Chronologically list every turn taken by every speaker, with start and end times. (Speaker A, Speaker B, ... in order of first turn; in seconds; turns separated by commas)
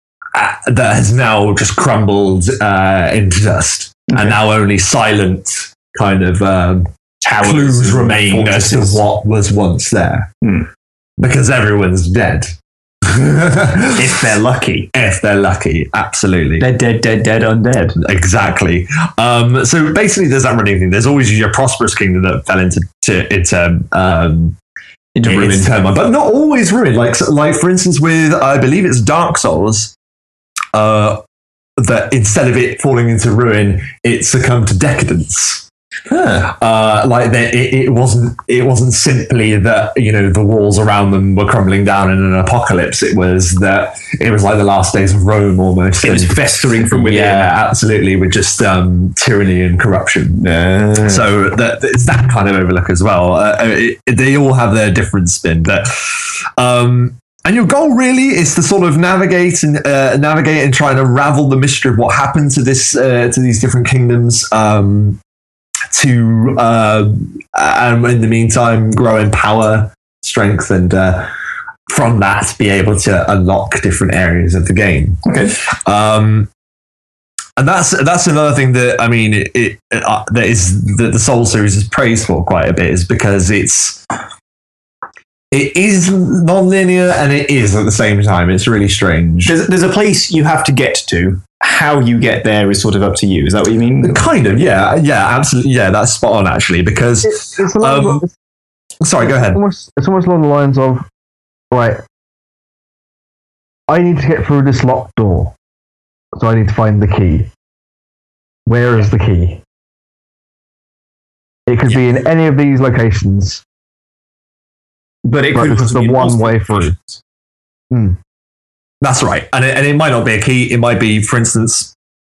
Speaker A: 0.3-10.3, Speaker B: 4.1-4.3, Speaker B: 7.2-9.0, Speaker B: 10.4-10.7, Speaker A: 11.2-14.3, Speaker B: 13.9-14.9, Speaker A: 14.9-16.7, Speaker B: 16.6-18.0, Speaker A: 18.0-24.6, Speaker B: 25.1-25.7, Speaker A: 25.2-29.9, Speaker A: 30.7-31.2, Speaker A: 31.8-35.6, Speaker B: 36.1-36.4, Speaker A: 36.4-46.4, Speaker B: 46.0-47.5, Speaker A: 46.9-50.4, Speaker B: 50.4-51.2, Speaker A: 51.0-65.2, Speaker A: 65.9-71.3, Speaker A: 71.9-76.5, Speaker B: 75.2-75.6, Speaker A: 77.6-84.0, Speaker A: 85.5-89.5, Speaker B: 89.4-94.2, Speaker A: 94.0-98.2, Speaker C: 97.2-98.3, Speaker A: 99.0-99.6, Speaker C: 99.2-101.0, Speaker C: 101.7-102.0, Speaker C: 103.9-105.5, Speaker C: 106.3-107.5, Speaker C: 108.7-109.6, Speaker C: 111.7-113.6, Speaker B: 115.2-117.2, Speaker C: 115.5-116.9, Speaker C: 117.9-118.2, Speaker A: 119.0-121.9